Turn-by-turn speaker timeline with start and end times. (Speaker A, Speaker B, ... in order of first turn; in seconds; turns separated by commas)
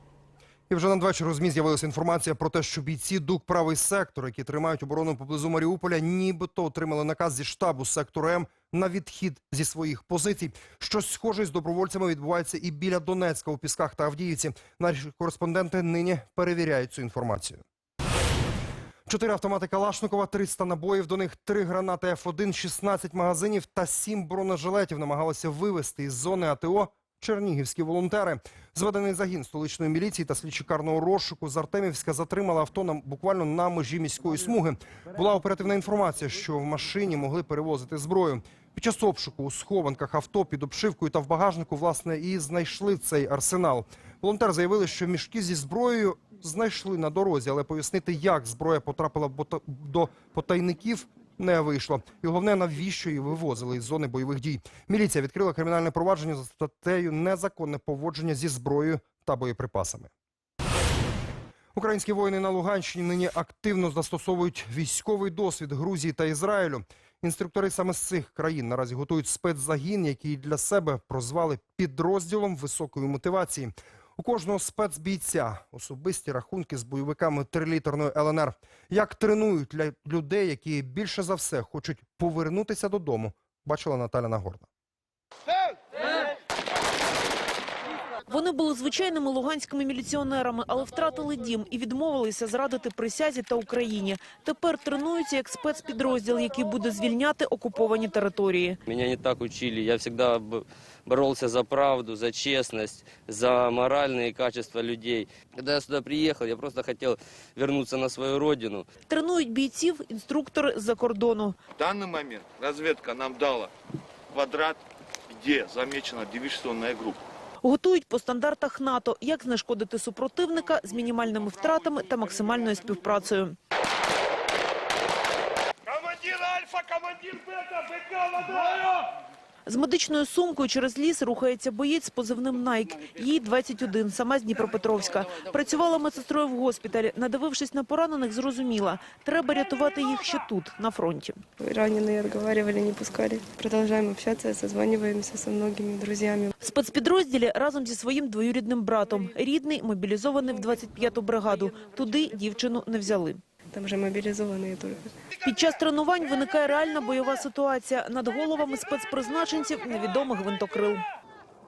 Speaker A: 0.7-17.6, Speaker A: 19.1-60.1, Speaker A: 61.7-84.7, Speaker B: 88.3-98.8, Speaker C: 98.8-108.8, Speaker B: 109.1-111.5, Speaker D: 111.8-113.7, Speaker D: 114.3-117.2, Speaker B: 117.6-123.5, Speaker B: 129.7-141.4, Speaker E: 141.6-146.5, Speaker B: 146.6-153.4, Speaker E: 153.7-155.1, Speaker B: 155.4-161.0